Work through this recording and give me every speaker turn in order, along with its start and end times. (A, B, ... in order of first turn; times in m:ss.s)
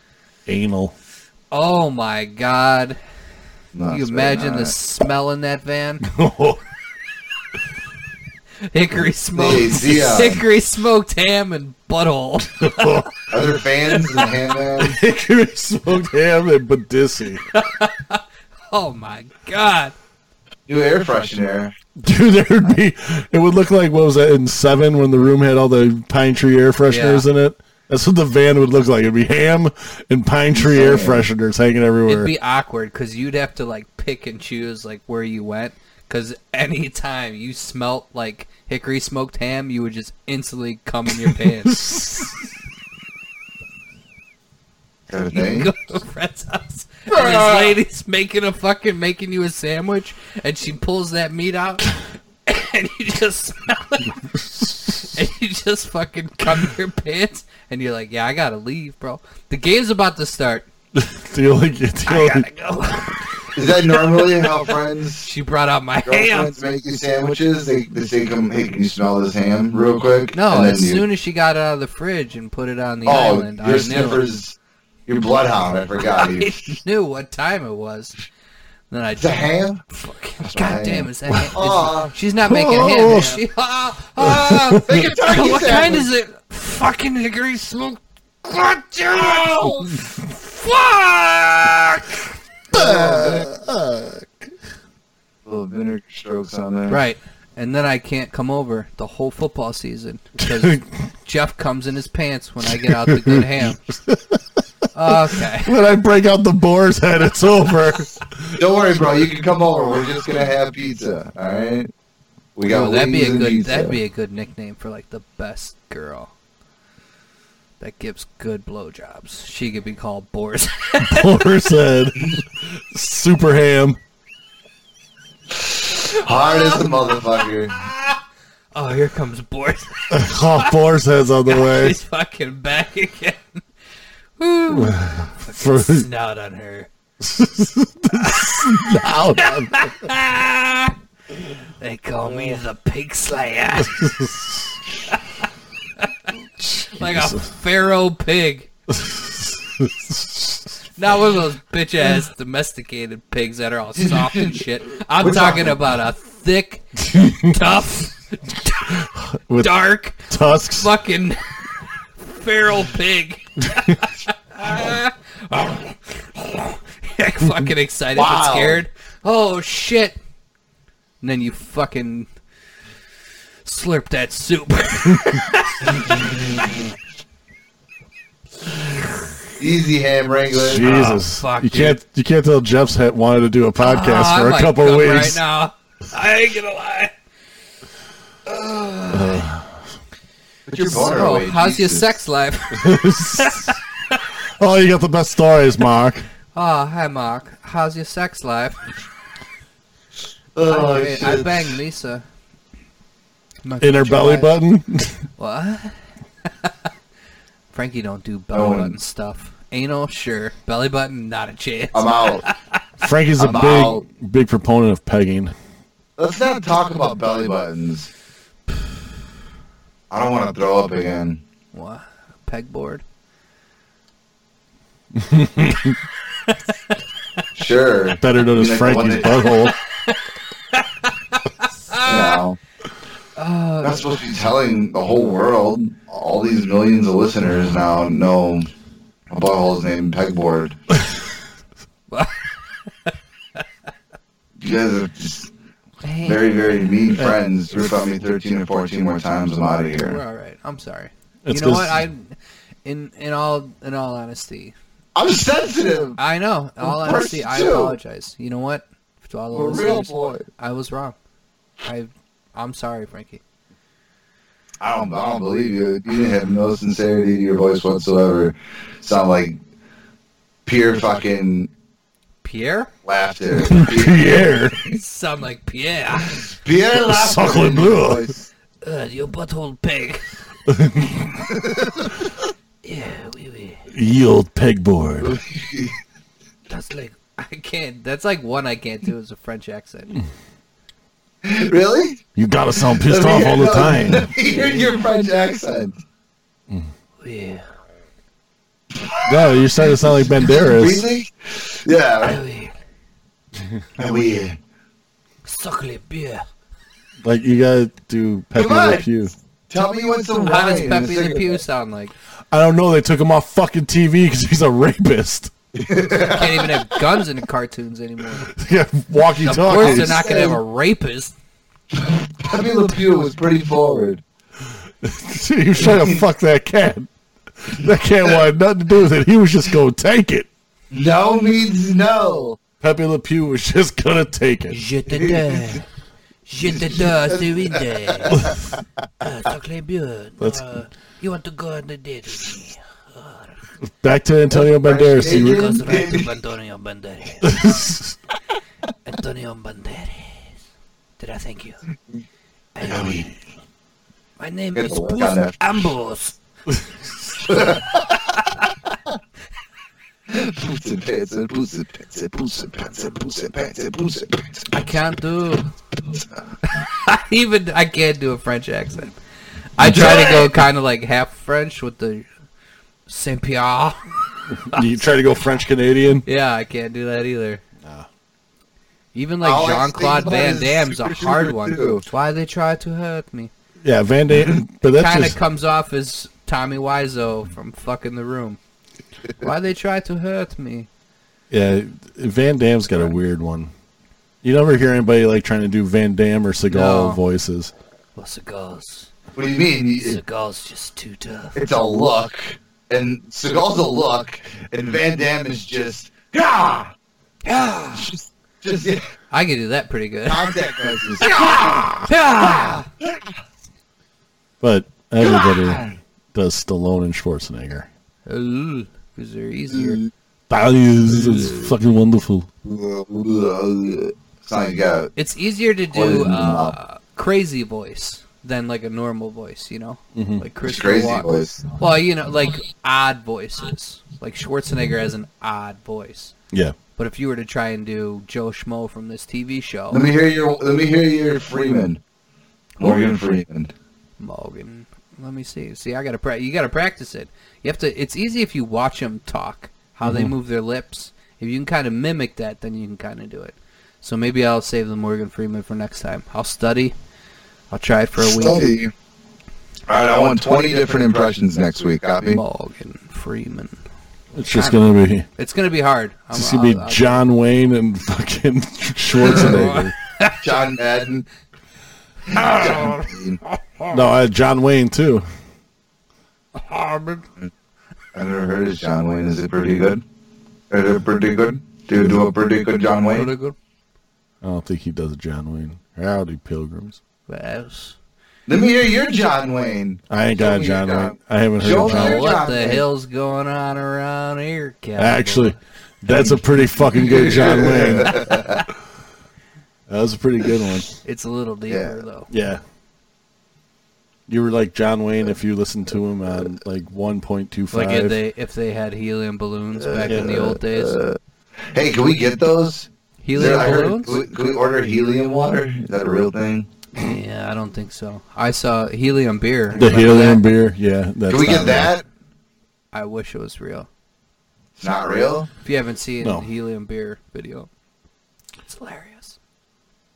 0:00.5-0:00.9 A
0:01.5-0:03.0 B
0:03.7-0:04.8 C
0:03.9-0:06.1 B
0:06.0-0:06.6 A
0:08.7-0:13.0 B
0:09.4-0:10.4 C
0:12.5-0:13.3 A
0:13.3-0:15.0 C
0:13.9-0:14.3 B
0:14.8-0:17.4 A
0:17.5-0:19.9 B
0:20.7-0:21.8 C
0:22.0-0:32.3 A
0:26.9-0:27.2 B
0:30.5-0:31.3 C
0:32.1-0:41.8 B
0:41.1-0:42.4 A
0:45.1-0:45.7 C
0:45.3-0:51.9 B
0:47.3-0:47.7 A
0:52.5-0:54.2 B
0:54.3-0:55.0 A
0:54.9-1:00.7 B
1:00.9-1:02.5 A
1:02.0-1:03.2 B
1:03.6-1:05.3 C
1:03.9-1:04.5 B
1:05.2-1:06.5 B
1:06.0-1:11.0 C
1:10.3-1:14.3 B
1:13.0-1:14.6 C
1:15.1-1:16.8 C
1:16.0-1:18.2 B
1:18.9-1:32.2 B
1:19.2-1:19.8 C
1:20.4-1:22.1 C
1:22.5-1:23.4 A
1:24.2-1:25.1 A
1:24.8-1:26.1 C
1:29.2-1:29.8 C
1:32.7-1:33.5 C
1:32.7-1:34.5 A
1:35.5-1:37.0 C
1:36.9-1:43.8 B
1:40.4-1:40.8 A
1:42.6-1:44.4 A
1:44.9-1:45.8 B
1:45.3-1:48.6 A
1:48.6-1:51.9 C
1:52.6-1:54.0 C
1:52.7-1:56.3 B
1:57.8-2:01.7 B
2:01.0-2:04.0 A
2:05.6-2:07.9 C
2:06.0-2:08.2 B
2:08.7-2:10.8 B
2:10.1-2:12.0 A
2:11.5-2:13.6 B
2:14.4-2:16.9 B
2:14.7-2:16.1 A
2:17.2-2:20.1 A
2:18.1-2:18.9 B
2:19.4-2:21.0 B
2:21.8-2:24.1 B
2:23.9-2:24.8 A
2:26.0-2:26.3 B
2:26.6-2:27.5 A
2:26.9-2:28.7 B
2:28.9-2:30.8 A
2:31.0-2:39.1 B
2:34.0-2:34.6 C
2:35.2-2:35.9 C
2:37.1-2:37.6 A
2:38.9-2:39.7 A
2:39.6-2:41.4 B
2:40.2-2:40.9 A
2:42.2-2:50.2 B
2:48.1-2:48.8 C
2:51.2-2:52.3 B
2:53.6-2:56.9 B
2:59.6-3:01.0 C
3:00.5-3:05.4 A
3:00.7-3:02.0 B
3:03.8-3:07.1 B
3:08.5-3:09.5 B
3:09.1-3:09.7 A
3:10.7-3:12.2 C
3:10.8-3:14.2 B
3:12.7-3:13.8 A
3:14.6-3:16.3 A
3:16.5-3:18.8 B
3:20.6-3:21.8 C
3:20.7-3:22.2 B
3:23.6-3:24.6 B
3:23.8-3:25.2 A
3:25.4-3:26.7 B
3:27.7-3:32.8 B
3:28.5-3:29.0 C
3:31.9-3:32.5 C
3:33.0-3:35.5 A
3:33.4-3:34.0 C
3:36.2-3:38.1 C
3:40.1-3:41.4 C
3:41.7-3:43.0 B
3:45.1-3:46.0 A
3:47.6-3:49.6 C
3:48.2-3:49.8 A
3:50.7-3:52.4 B
3:52.0-3:52.6 C
3:53.4-3:54.1 B
3:53.8-3:58.7 C
3:59.3-4:00.8 C
4:02.1-4:02.4 B
4:04.6-4:05.5 C
4:06.0-4:06.9 B
4:06.2-4:10.2 C
4:10.0-4:14.8 B
4:11.4-4:12.0 A
4:15.2-4:16.2 C
4:16.2-4:21.2 B
4:16.8-4:18.0 C
4:19.5-4:20.4 C
4:21.8-4:23.4 B
4:24.8-4:29.6 C
4:30.7-4:31.7 C
4:32.4-4:32.9 B
4:33.0-4:34.8 C
4:33.6-4:34.8 A
4:34.7-4:36.4 B
4:36.3-4:38.4 C
4:36.9-4:38.3 A
4:38.8-4:40.2 B
4:40.7-4:41.5 A
4:41.6-4:42.1 C
4:42.8-4:43.9 B
4:43.9-4:45.4 A
4:45.2-4:46.0 C
4:46.7-4:50.2 B
4:51.4-4:52.2 C
4:52.4-4:54.3 A
4:52.9-4:56.0 C
4:54.4-4:54.9 B
4:57.2-4:57.7 B
4:59.0-5:02.4 C
4:59.2-5:01.1 A
5:02.2-5:02.8 B
5:04.0-5:04.6 C
5:05.4-5:06.4 B
5:07.2-5:09.3 A
5:08.6-5:09.1 C
5:09.7-5:11.6 C
5:10.4-5:12.1 B
5:12.5-5:15.5 A
5:15.8-5:16.9 C
5:16.1-5:18.5 B
5:18.5-5:20.3 A
5:19.4-5:21.3 B
5:19.7-5:20.6 C
5:22.1-5:24.2 C
5:25.0-5:30.5 A
5:25.8-5:26.2 C
5:30.9-5:32.6 C
5:32.8-5:34.8 A
5:34.7-5:35.9 B
5:35.1-5:35.8 C
5:36.4-5:38.6 B
5:36.6-5:38.8 C
5:39.2-5:43.6 B
5:43.8-5:45.8 A
5:44.5-5:46.3 C
5:45.2-5:47.6 B
5:47.4-5:48.2 A
5:49.0-5:50.5 B
5:51.2-5:51.8 B
5:52.8-5:53.3 B
5:52.8-5:53.3 C
5:54.4-5:56.4 B
5:54.8-5:55.6 C
5:57.4-5:58.1 C
5:58.3-5:58.7 B
6:00.3-6:04.7 C
6:04.7-6:05.7 B
6:06.6-6:09.2 B
6:09.8-6:12.3 B
6:09.8-6:10.4 A
6:10.2-6:10.4 C
6:13.1-6:14.2 B
6:14.5-6:16.3 A
6:16.3-6:17.6 B
6:17.8-6:18.1 A
6:19.1-6:23.5 B
6:19.4-6:22.0 C
6:23.8-6:25.4 A
6:25.0-6:28.6 B
6:29.4-6:30.9 B
6:31.5-6:33.7 A
6:34.4-6:37.7 A
6:36.7-6:37.2 B
6:38.2-6:39.1 B
6:39.4-6:40.2 C
6:40.0-6:41.6 B
6:41.6-6:46.9 C
6:47.4-6:48.1 B
6:47.9-6:49.0 C
6:49.3-6:50.5 B
6:50.3-6:51.7 C
6:51.2-6:52.9 B
6:51.3-6:52.1 A
6:54.6-6:57.9 A
6:55.2-6:55.9 C
6:58.3-7:00.0 B
7:00.5-7:02.5 A
7:02.6-7:05.1 C
7:05.2-7:16.3 B
7:05.9-7:06.8 C
7:10.2-7:10.4 A
7:10.6-7:11.7 C
7:17.0-7:20.1 B
7:19.9-7:22.0 C
7:22.8-7:23.7 C
7:24.2-7:37.0 B
7:30.0-7:30.3 A
7:37.7-7:38.7 B
7:38.2-7:38.9 C
7:39.9-7:42.4 C
7:42.3-7:43.8 B
7:44.4-7:45.3 A
7:44.5-7:47.2 B
7:46.3-7:49.9 A
7:49.2-7:49.7 C
7:49.2-7:50.4 B
7:50.4-7:51.3 C
7:52.3-7:53.4 C
7:52.3-7:54.0 B
7:53.9-7:55.2 A
7:56.6-7:57.3 B
7:58.1-8:00.0 C
8:00.7-8:03.3 C
8:03.1-8:03.6 B
8:04.4-8:07.0 A
8:07.3-8:08.0 B
8:08.5-8:12.8 C
8:10.1-8:12.4 A
8:11.8-8:15.6 B
8:15.0-8:18.4 A
8:16.9-8:18.6 C
8:19.9-8:20.9 A
8:21.0-8:22.3 B
8:21.7-8:22.0 C
8:22.3-8:22.6 A
8:24.3-8:28.2 A
8:27.7-8:31.0 B
8:29.8-8:31.2 C
8:30.1-8:30.4 A
8:31.7-8:36.7 C
8:33.2-8:34.2 B
8:37.0-8:40.4 B
8:39.8-8:41.9 A
8:41.3-8:42.0 C
8:42.9-8:43.9 B
8:44.8-8:45.5 C
8:45.6-8:47.7 B
8:48.7-8:49.4 B